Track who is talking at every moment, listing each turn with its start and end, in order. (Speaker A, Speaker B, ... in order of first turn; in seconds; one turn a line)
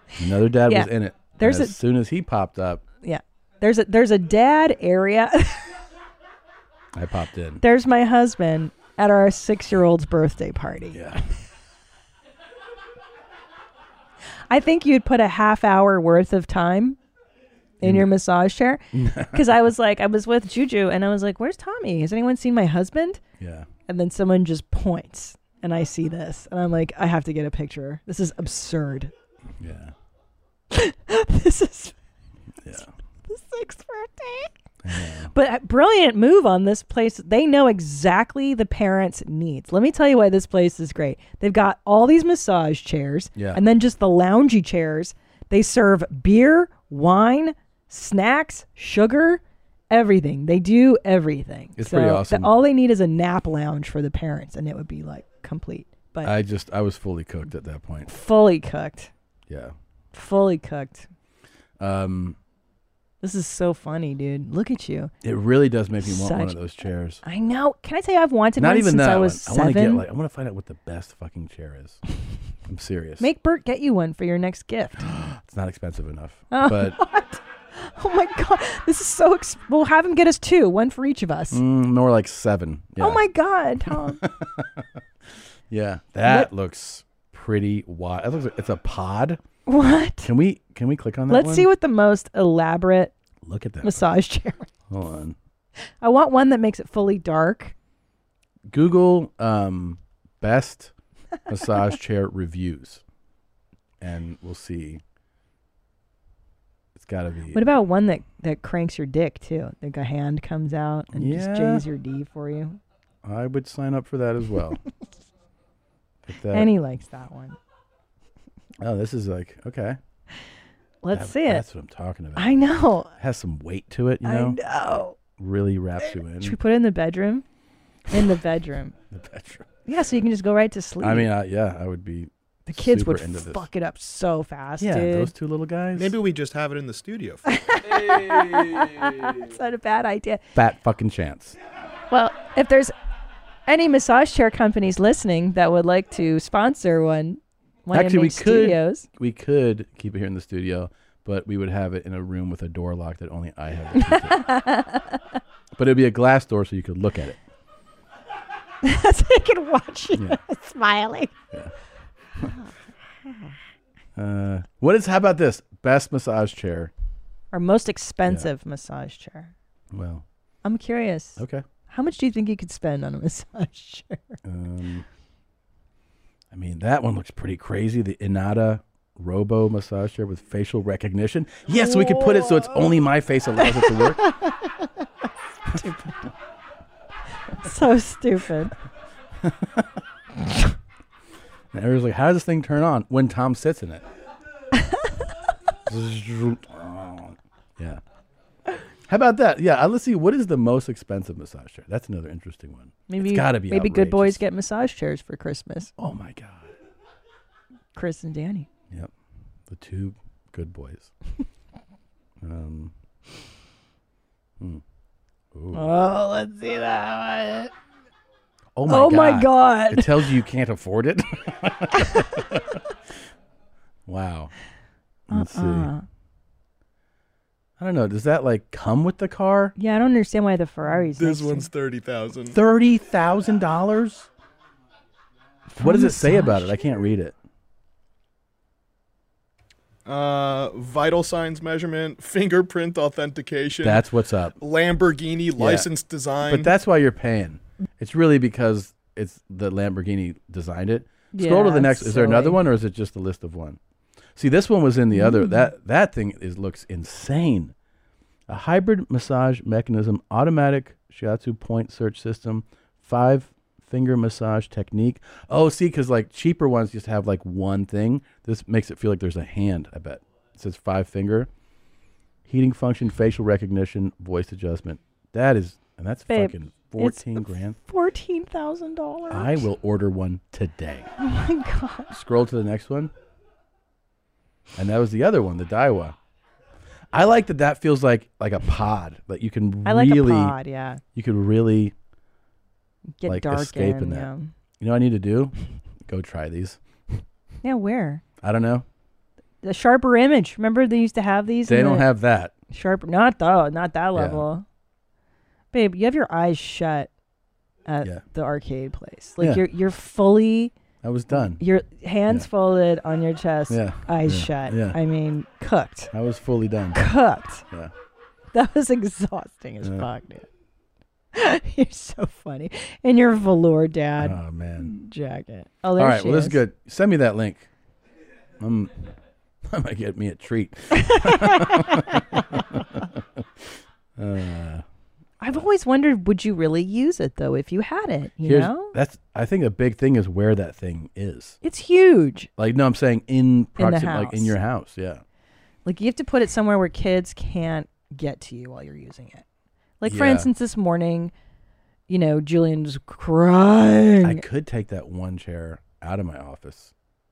Speaker A: 0.2-2.8
Speaker B: 0.7-1.8
Speaker B: 3.0-5.6
Speaker A: 6.9-7.6
Speaker B: 7.6-11.0
Speaker A: 10.9-11.2
Speaker B: 14.5-17.0
Speaker B: 17.8-23.2
Speaker A: 17.8-18.1
Speaker A: 18.9-19.5
Speaker A: 23.4-23.7
Speaker B: 23.9-29.1
Speaker A: 29.6-29.9
Speaker B: 30.7-31.9
Speaker A: 32.6-32.9
Speaker B: 33.3-34.5
Speaker A: 34.8-35.3
Speaker B: 35.3-56.3
Speaker A: 43.3-43.6
Speaker A: 51.7-52.5
Speaker A: 56.2-58.1
Speaker B: 58.1-59.1
Speaker A: 59.5-59.7
Speaker B: 60.1-61.1
Speaker A: 61.8-62.4
Speaker B: 63.2-65.1
Speaker A: 65.2-67.2
Speaker B: 66.0-66.5
Speaker B: 67.2-70.0
Speaker A: 68.6-72.0
Speaker A: 72.7-73.3
Speaker B: 73.2-75.1
Speaker A: 75.0-77.0
Speaker B: 76.5-81.6
Speaker A: 81.5-83.2
Speaker B: 83.0-84.2
Speaker A: 83.9-84.8
Speaker A: 85.7-89.4
Speaker B: 89.7-90.3
Speaker A: 90.2-91.7
Speaker B: 91.3-93.1
Speaker A: 93.4-94.0
Speaker B: 93.8-94.7
Speaker A: 94.9-95.3
Speaker B: 96.0-97.7
Speaker A: 98.7-100.9
Speaker A: 101.5-103.0
Speaker A: 104.0-105.0
Speaker A: 107.0-107.6
Speaker B: 107.5-112.8
Speaker A: 111.1-111.8
Speaker A: 113.2-114.8
Speaker A: 116.2-116.7
Speaker B: 116.5-117.6
Speaker A: 118.8-120.0
Speaker B: 121.0-121.6
Speaker A: 121.1-122.6
Speaker B: 122.3-123.1
Speaker A: 123.2-124.6
Speaker B: 124.2-125.2
Speaker A: 125.4-126.6
Speaker B: 126.0-127.4
Speaker B: 128.1-128.9
Speaker A: 129.1-129.7
Speaker B: 129.8-131.3
Speaker A: 131.0-133.7
Speaker B: 132.7-135.3
Speaker A: 134.8-136.2
Speaker C: 135.9-137.4
Speaker B: 137.5-140.4
Speaker A: 140.5-141.6
Speaker B: 142.1-142.9
Speaker B: 143.7-149.1
Speaker A: 147.9-154.4
Speaker B: 153.9-155.2
Speaker A: 155.8-157.4
Speaker B: 158.8-161.3
Speaker A: 164.2-166.9
Speaker B: 167.5-169.5
Speaker A: 169.9-170.2
Speaker B: 170.6-174.4
Speaker A: 171.4-171.6
Speaker A: 174.4-175.0
Speaker A: 176.5-184.2
Speaker B: 181.8-182.8
Speaker B: 183.6-184.8
Speaker B: 185.7-186.2
Speaker B: 187.6-188.7
Speaker A: 189.4-189.9
Speaker A: 191.7-194.0
Speaker A: 195.9-198.0
Speaker A: 199.1-204.4
Speaker B: 203.1-205.9
Speaker A: 206.0-206.7
Speaker B: 207.9-208.7
Speaker A: 209.7-211.1
Speaker A: 212.4-212.9
Speaker A: 215.5-215.9
Speaker B: 215.7-217.7
Speaker A: 218.8-222.8
Speaker B: 218.9-220.3
Speaker A: 224.1-224.5
Speaker A: 225.3-225.9
Speaker B: 225.3-226.0
Speaker A: 227.8-229.7
Speaker B: 229.8-231.7
Speaker C: 231.1-232.6
Speaker A: 232.5-234.3
Speaker B: 235.7-236.8
Speaker A: 235.8-237.3
Speaker C: 240.1-244.0
Speaker A: 243.8-244.6
Speaker C: 244.6-246.7
Speaker A: 245.6-245.9
Speaker A: 246.4-253.8
Speaker B: 251.3-252.6
Speaker A: 254.3-257.7
Speaker B: 255.1-255.7
Speaker A: 258.5-271.5
Speaker A: 272.5-277.8
Speaker B: 276.3-279.6
Speaker A: 279.3-281.1
Speaker B: 281.2-282.2
Speaker A: 282.2-283.1
Speaker A: 284.8-286.1
Speaker A: 287.1-290.6
Speaker B: 289.8-291.0
Speaker A: 291.1-291.9
Speaker B: 293.2-294.5
Speaker A: 293.2-294.3
Speaker A: 294.8-295.5
Speaker A: 296.1-297.2
Speaker B: 297.6-298.2
Speaker A: 298.4-298.8
Speaker B: 299.6-302.1
Speaker A: 301.7-302.5
Speaker B: 302.7-304.6
Speaker A: 304.1-304.4
Speaker B: 305.7-307.1
Speaker B: 307.9-310.7
Speaker A: 311.0-311.6
Speaker B: 311.6-316.1
Speaker A: 313.7-315.0
Speaker A: 316.1-317.0
Speaker B: 316.9-317.6
Speaker B: 318.5-320.5
Speaker B: 321.3-326.6
Speaker A: 324.2-324.9
Speaker A: 326.0-327.7
Speaker A: 328.6-329.0
Speaker A: 329.7-333.4
Speaker B: 331.0-331.9
Speaker A: 334.2-334.8
Speaker B: 335.4-338.9
Speaker A: 338.4-341.6
Speaker B: 341.6-342.5
Speaker A: 342.6-345.2
Speaker B: 343.8-344.5
Speaker B: 345.8-349.4
Speaker B: 350.0-351.3
Speaker A: 350.1-350.5
Speaker B: 352.1-354.4
Speaker A: 354.2-356.9